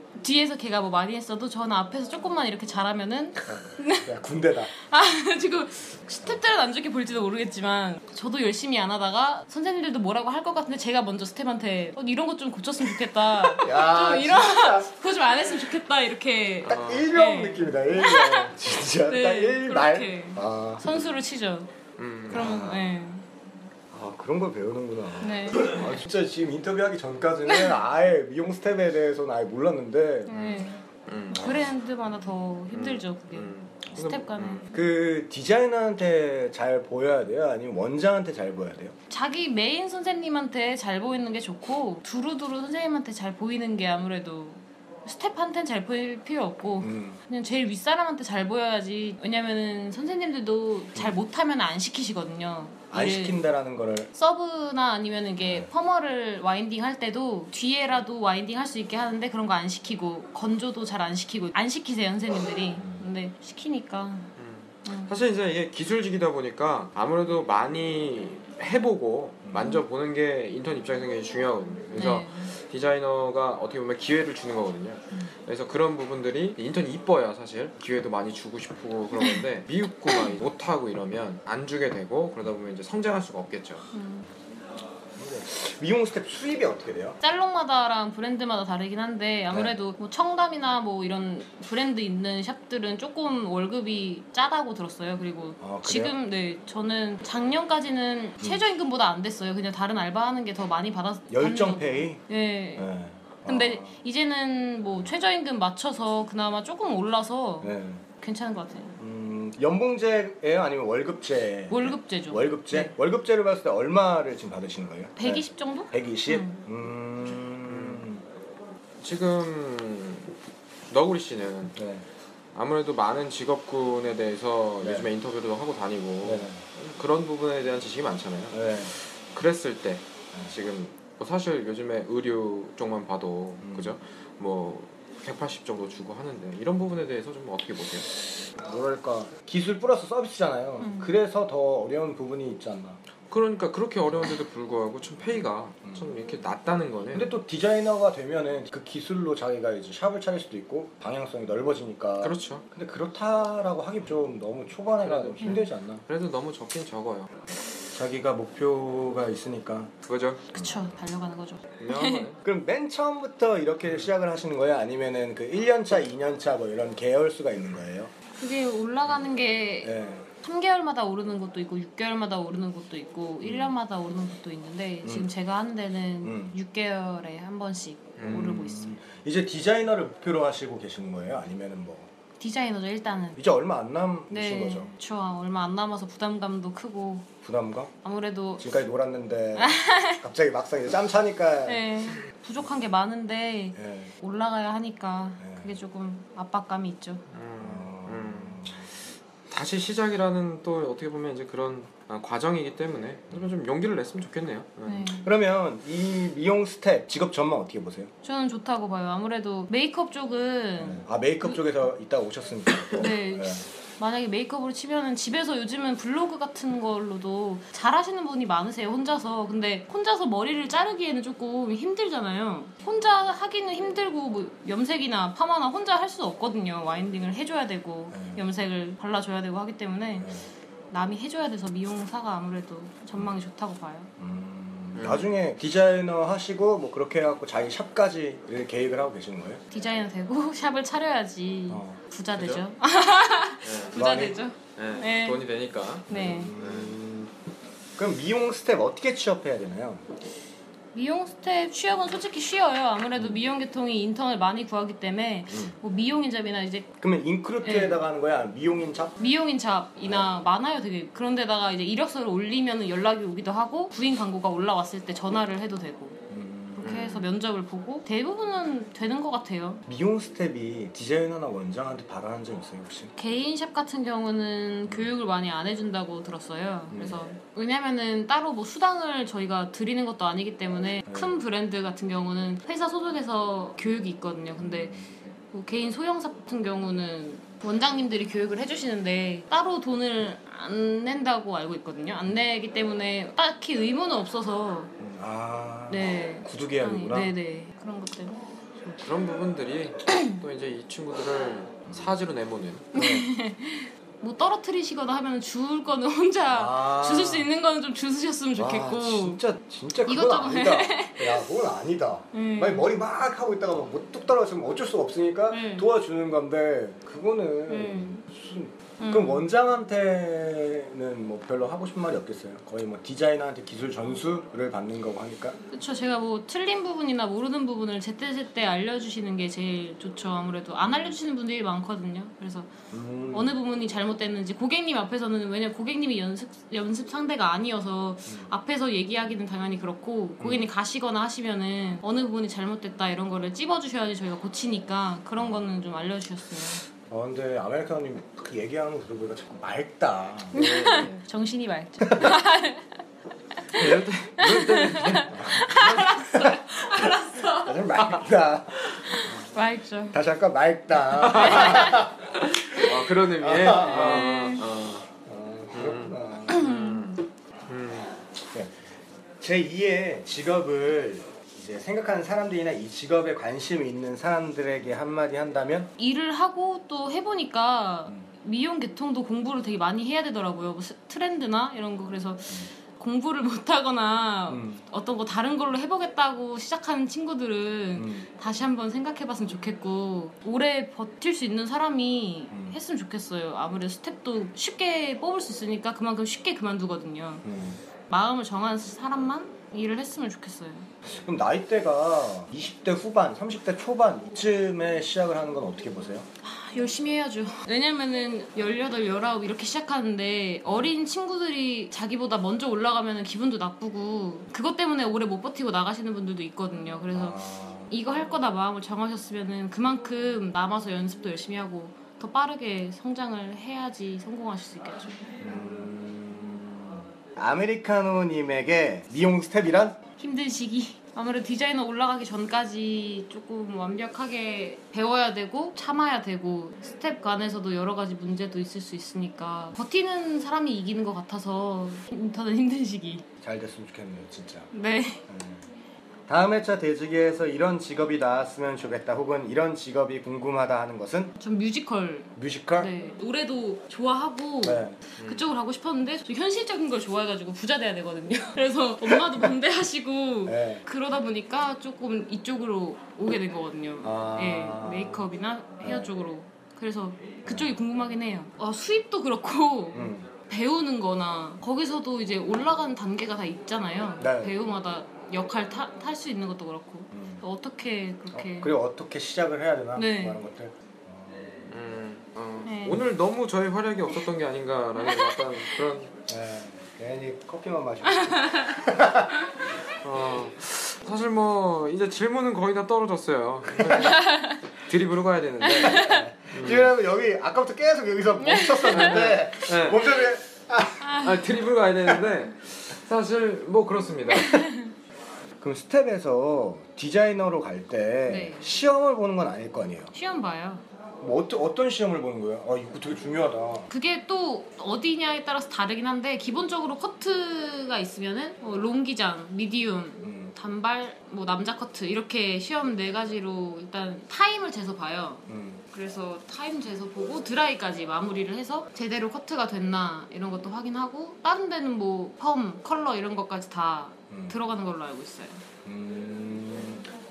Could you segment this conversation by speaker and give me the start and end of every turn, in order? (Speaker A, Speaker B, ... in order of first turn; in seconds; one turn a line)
Speaker A: 0.2-4.1
Speaker B: 3.5-4.7
Speaker A: 4.7-21.7
Speaker B: 13.4-14.9
Speaker B: 16.6-21.0
Speaker C: 16.7-17.1
Speaker C: 22.0-22.5
Speaker A: 22.3-23.3
Speaker B: 22.3-23.0
Speaker B: 23.9-30.4
Speaker A: 25.2-25.9
Speaker A: 30.3-34.8
Speaker C: 30.3-31.7
Speaker C: 32.7-34.7
Speaker B: 34.7-39.0
Speaker A: 39.1-53.4
Speaker B: 46.8-47.2
Speaker B: 52.9-54.1
Speaker A: 54.1-64.3
Speaker B: 55.4-55.7
Speaker B: 62.8-63.0
Speaker C: 64.4-83.8
Speaker A: 64.8-65.1
Speaker B: 69.5-69.7
Speaker A: 72.0-72.5
Speaker A: 83.9-84.3
Speaker B: 85.2-87.2
Speaker A: 87.2-102.9
Speaker B: 95.6-96.2
Speaker B: 101.3-102.2
Speaker B: 102.8-103.9
Speaker A: 103.5-109.0
Speaker B: 107.6-108.0
Speaker B: 109.0-118.2
Speaker A: 111.7-112.9
Speaker A: 115.2-116.6
Speaker C: 117.6-118.1
Speaker C: 119.0-120.3
Speaker C: 120.9-121.8
Speaker B: 121.8-122.0
Speaker C: 122.5-138.1
Speaker B: 124.8-125.1
Speaker B: 126.2-126.6
Speaker B: 128.5-128.9
Speaker B: 133.6-134.0
Speaker B: 138.6-143.0
Speaker A: 140.8-141.1
Speaker C: 143.3-147.3
Speaker B: 145.8-146.1
Speaker B: 147.1-156.0
Speaker C: 152.2-152.7
Speaker C: 155.0-157.5
Speaker B: 157.9-159.9
Speaker C: 160.1-160.5
Speaker A: 160.5-162.3
Speaker B: 160.6-160.9
Speaker C: 161.8-162.4
Speaker B: 162.4-168.1
Speaker A: 168.4-179.0
Speaker B: 169.8-170.3
Speaker B: 173.4-173.7
Speaker B: 175.0-175.3
Speaker B: 176.2-176.5
Speaker C: 178.2-178.5
Speaker B: 178.2-182.1
Speaker A: 182.4-183.4
Speaker B: 183.4-184.9
Speaker A: 184.3-187.3
Speaker B: 187.4-187.9
Speaker A: 188.0-188.7
Speaker B: 188.6-192.0
Speaker A: 189.6-190.2
Speaker A: 191.7-197.2
Speaker B: 193.8-194.1
Speaker B: 195.4-195.7
Speaker C: 197.3-198.8
Speaker B: 197.6-198.8
Speaker C: 199.5-205.1
Speaker A: 204.8-205.3
Speaker B: 205.2-208.1
Speaker A: 208.2-211.6
Speaker B: 210.8-213.7
Speaker A: 213.0-230.3
Speaker B: 228.1-228.4
Speaker B: 230.2-230.5
Speaker A: 230.9-234.1
Speaker B: 234.2-239.6
Speaker C: 235.0-235.3
Speaker A: 239.7-245.4
Speaker B: 241.7-242.0
Speaker C: 242.3-242.6
Speaker C: 243.6-244.1
Speaker B: 243.9-244.4
Speaker C: 244.8-246.9
Speaker A: 246.1-246.5
Speaker B: 246.1-247.3
Speaker B: 248.0-250.1
Speaker A: 250.9-256.9
Speaker B: 255.5-255.8
Speaker B: 257.0-259.2
Speaker A: 257.6-258.0
Speaker A: 259.2-266.2
Speaker B: 266.3-266.9
Speaker A: 266.8-269.8
Speaker C: 266.8-267.3
Speaker B: 269.9-273.1
Speaker A: 273.2-285.0
Speaker B: 276.9-277.2
Speaker B: 281.1-281.3
Speaker B: 284.6-285.1
Speaker A: 285.5-294.9
Speaker B: 295.0-297.3
Speaker A: 295.9-298.4
Speaker C: 298.9-302.9
Speaker A: 300.1-300.4
Speaker B: 301.9-302.2
Speaker B: 302.9-303.3
Speaker A: 302.9-309.4
Speaker B: 306.5-307.5
Speaker B: 308.6-325.6
Speaker A: 310.1-311.4
Speaker A: 312.3-312.9
Speaker A: 315.5-315.9
Speaker A: 317.7-318.2
Speaker A: 319.0-319.5
Speaker A: 325.7-332.7
Speaker B: 332.9-333.5
Speaker A: 333.3-346.8
Speaker B: 347.1-350.6
Speaker C: 350.5-351.2
Speaker A: 350.5-352.9
Speaker C: 353.7-356.1
Speaker A: 353.8-357.8
Speaker B: 355.3-356.6
Speaker B: 357.5-359.4
Speaker A: 359.1-360.2
Speaker B: 360.1-362.2
Speaker C: 361.1-365.1
Speaker A: 361.4-362.1
Speaker B: 362.9-364.3
Speaker A: 363.8-364.6
Speaker B: 365.2-366.6
Speaker C: 365.7-368.1
Speaker A: 366.5-367.2
Speaker B: 369.4-375.9
Speaker A: 376.0-397.4
Speaker B: 384.5-384.8
Speaker B: 388.0-388.3
Speaker B: 392.5-392.8
Speaker B: 397.4-397.8
Speaker A: 398.1-400.9
Speaker B: 401.1-406.3
Speaker A: 406.4-425.2
Speaker B: 417.1-417.9
Speaker B: 425.4-430.0
Speaker A: 430.2-443.2
Speaker B: 443.4-444.7
Speaker A: 444.7-445.2
Speaker B: 445.3-445.6
Speaker B: 446.3-451.4
Speaker A: 451.4-478.7
Speaker B: 452.4-452.9
Speaker B: 454.6-455.0
Speaker C: 455.2-455.5
Speaker B: 460.5-460.8
Speaker B: 464.0-465.3
Speaker B: 465.8-466.1
Speaker B: 467.5-467.8
Speaker B: 469.9-470.3
Speaker B: 474.2-474.5
Speaker B: 477.1-477.4
Speaker B: 478.3-481.7
Speaker A: 480.0-480.4
Speaker C: 481.7-486.1
Speaker A: 482.6-483.0
Speaker A: 485.0-485.4
Speaker B: 486.3-489.4
Speaker A: 488.1-488.8
Speaker C: 490.0-496.9
Speaker B: 493.8-494.1
Speaker A: 494.0-494.6
Speaker A: 495.6-496.2
Speaker B: 495.9-501.1
Speaker A: 498.4-499.1
Speaker C: 498.9-500.2
Speaker A: 501.0-501.4
Speaker C: 501.2-504.7
Speaker A: 504.4-504.9
Speaker B: 505.6-510.1
Speaker A: 508.3-508.7
Speaker A: 510.1-510.8
Speaker B: 511.2-513.9
Speaker A: 513.9-535.6
Speaker B: 520.2-520.5
Speaker B: 525.5-525.8
Speaker B: 534.3-534.6
Speaker B: 535.9-537.1